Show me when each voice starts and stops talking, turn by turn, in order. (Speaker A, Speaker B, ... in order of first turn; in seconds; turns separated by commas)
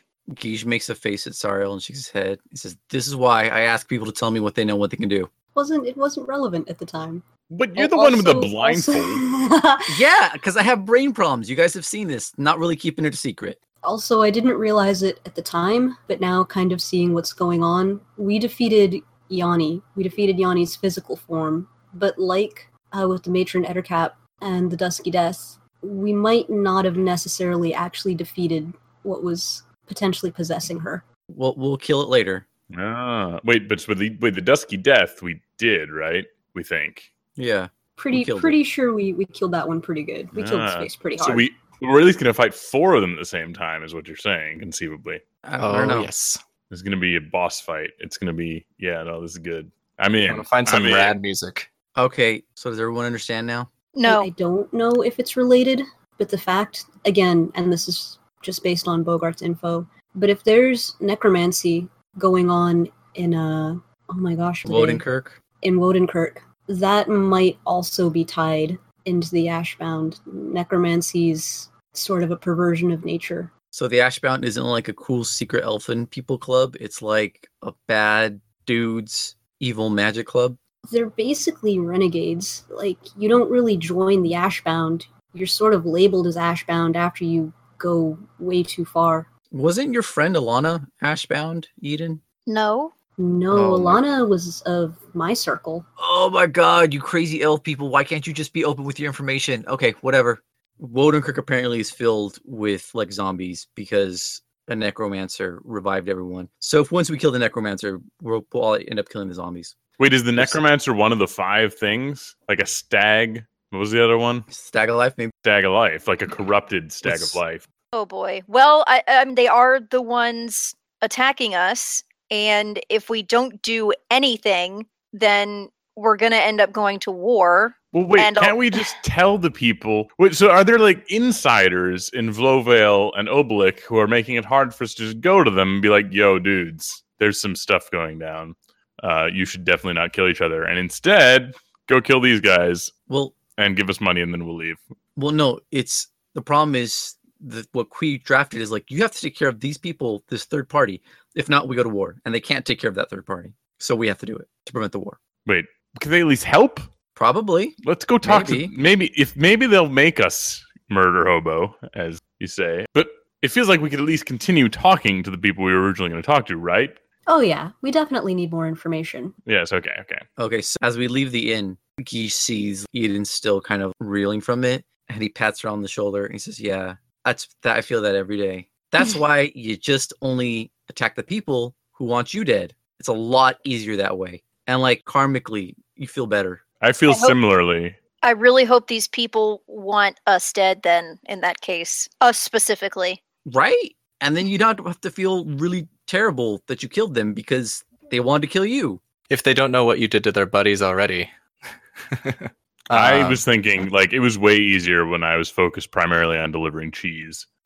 Speaker A: 0.3-5.3, Speaker B: 5.5-7.2, Speaker C: 7.5-9.2, Speaker B: 7.8-10.0, Speaker A: 9.9-13.6, Speaker B: 13.8-31.0, Speaker A: 31.3-32.5, Speaker C: 32.7-37.1, Speaker A: 37.4-38.6, Speaker B: 38.0-41.5, Speaker C: 40.3-45.2, Speaker A: 45.4-46.1, Speaker D: 45.6-46.4, Speaker C: 46.7-51.1, Speaker D: 50.3-51.7, Speaker A: 52.0-53.7, Speaker E: 53.9-54.3, Speaker B: 54.0-65.0, Speaker A: 64.6-65.4, Speaker B: 65.6-73.5, Speaker A: 73.7-80.6, Speaker B: 80.9-89.3, Speaker A: 89.5-92.2, Speaker E: 92.5-92.9, Speaker B: 93.2-95.8, Speaker A: 93.5-94.0, Speaker A: 96.0-109.8, Speaker C: 110.0-114.5, Speaker A: 110.3-110.6, Speaker A: 114.5-115.3, Speaker C: 115.4-117.6, Speaker A: 117.0-117.4, Speaker E: 117.9-128.9, Speaker C: 127.9-142.9, Speaker A: 143.1-143.4, Speaker C: 143.5-144.8, Speaker A: 145.2-155.2, Speaker C: 155.4-156.9, Speaker A: 157.2-158.7, Speaker C: 157.8-167.0, Speaker B: 167.3-169.3, Speaker C: 169.4-170.2, Speaker A: 170.4-186.6, Speaker C: 186.8-188.0, Speaker E: 187.1-187.3, Speaker E: 188.2-193.2, Speaker A: 193.4-199.0, Speaker D: 199.3-201.3, Speaker D: 202.1-203.4, Speaker C: 202.9-207.4